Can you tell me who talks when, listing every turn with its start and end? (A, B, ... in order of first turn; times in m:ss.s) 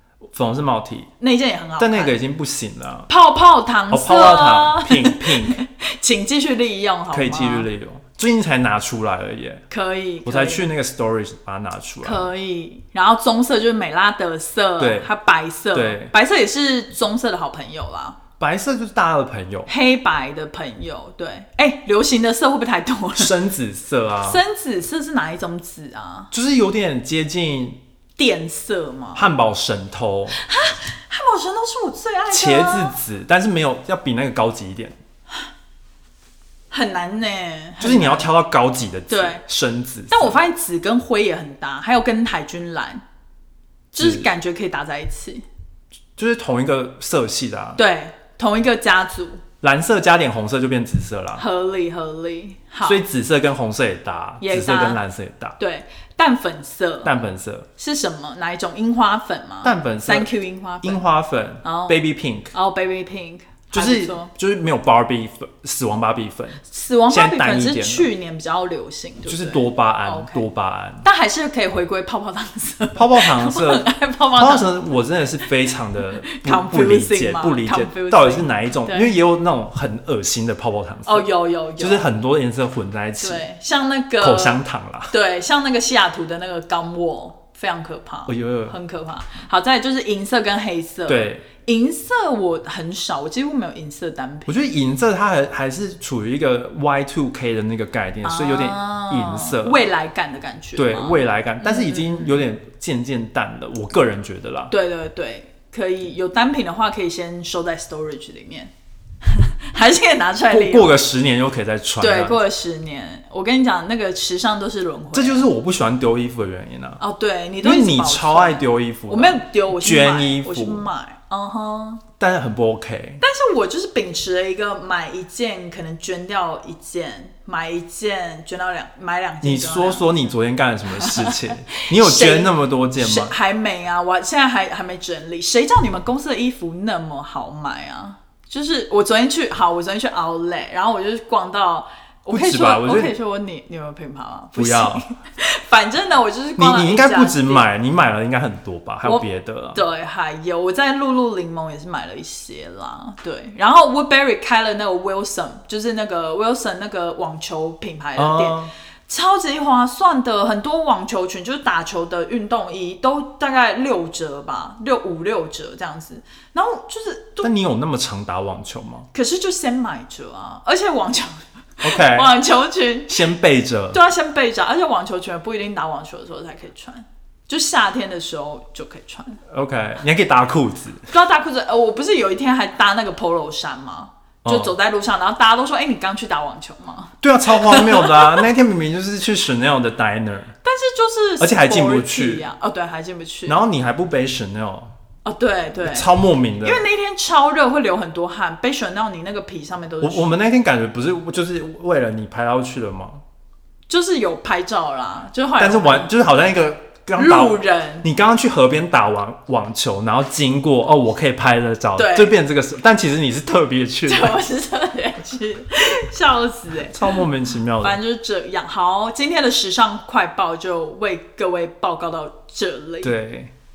0:00.2-0:01.1 A
0:01.2-0:02.2 B
0:01.8-0:03.1 A
0:03.1-0:07.7 B
0:03.9-0:05.6 A
0:07.1-0:09.6 A
0:09.7-0:10.7 B
0:10.2-0:12.2 A
0:12.0-0:18.2 B
0:14.8-0:15.1 A
0:15.7-0:16.1 A
0:18.4-0:19.7 A
0:19.7-0:23.3 B
0:23.2-0:24.4 A
0:24.2-0:26.3 B
0:26.3-0:27.8 A
0:28.2-0:29.2 B
0:29.1-0:30.4 A
0:30.3-0:33.0 B
0:32.3-0:35.0 A
0:36.7-0:38.3 B
0:37.8-0:40.4 A
0:39.1-0:39.4 B
0:40.1-0:43.0 B
0:43.9-0:45.4 B
0:44.0-0:44.3 A
0:46.2-0:47.8 A
0:47.8-0:49.4 B
0:49.6-0:51.4 A
0:51.4-0:53.0 B
0:52.8-0:55.6 A
0:54.4-0:55.0 B
0:55.6-0:57.1 B
0:57.0-0:57.7 A
0:57.8-1:01.0 B
0:59.6-1:00.3 A
1:00.8-1:02.5 A
1:01.6-1:02.0 B
1:02.5-1:04.3 B
1:03.7-1:08.1 A
1:06.7-1:10.5 B
1:09.2-1:11.0 A
1:11.0-1:14.9 B
1:12.9-1:21.3 A
1:16.3-1:19.1 B
1:21.0-1:22.0 B
1:21.8-1:23.4 A
1:23.2-1:34.6 B
1:24.2-1:25.1 A
1:28.3-1:28.8 A
1:31.1-1:31.4 A
1:34.4-1:39.8 A
1:38.2-1:42.4 B
1:40.8-1:44.7 A
1:44.7-1:48.7 B
1:49.2-1:51.0 B
1:50.5-1:52.4 A
1:52.0-1:55.5 B
1:55.1-1:57.0 A
1:57.0-2:02.0 B
1:57.6-2:00.9 A
2:02.2-2:03.2 A
2:03.2-2:10.3 B
2:09.4-2:13.3 A
2:10.9-2:27.6 B
2:22.3-2:23.1 A
2:24.6-2:25.0 A
2:26.6-2:29.8 A
2:29.0-2:47.5 B
2:38.2-2:38.7 A
2:47.4-2:49.1 A
2:49.1-2:53.3 B
2:51.8-2:52.3 A
2:53.1-2:54.0 A
2:53.9-2:59.4 B
2:59.5-3:01.1 A
3:01.1-3:08.4 B
3:04.4-3:04.7 A
3:07.2-3:10.5 A
3:10.6-3:13.6 B
3:11.4-3:12.4 A
3:13.5-3:14.9 A
3:15.2-3:16.1 B
3:15.8-3:16.8 A
3:16.6-3:20.3 B
3:20.0-3:23.2 A
3:23.9-3:26.1 B
3:25.6-3:34.4 A
3:27.1-3:28.1 B
3:32.0-3:32.3 B
3:34.1-3:37.2 B
3:36.8-3:38.0 A
3:37.8-3:43.1 B
3:43.0-3:43.5 A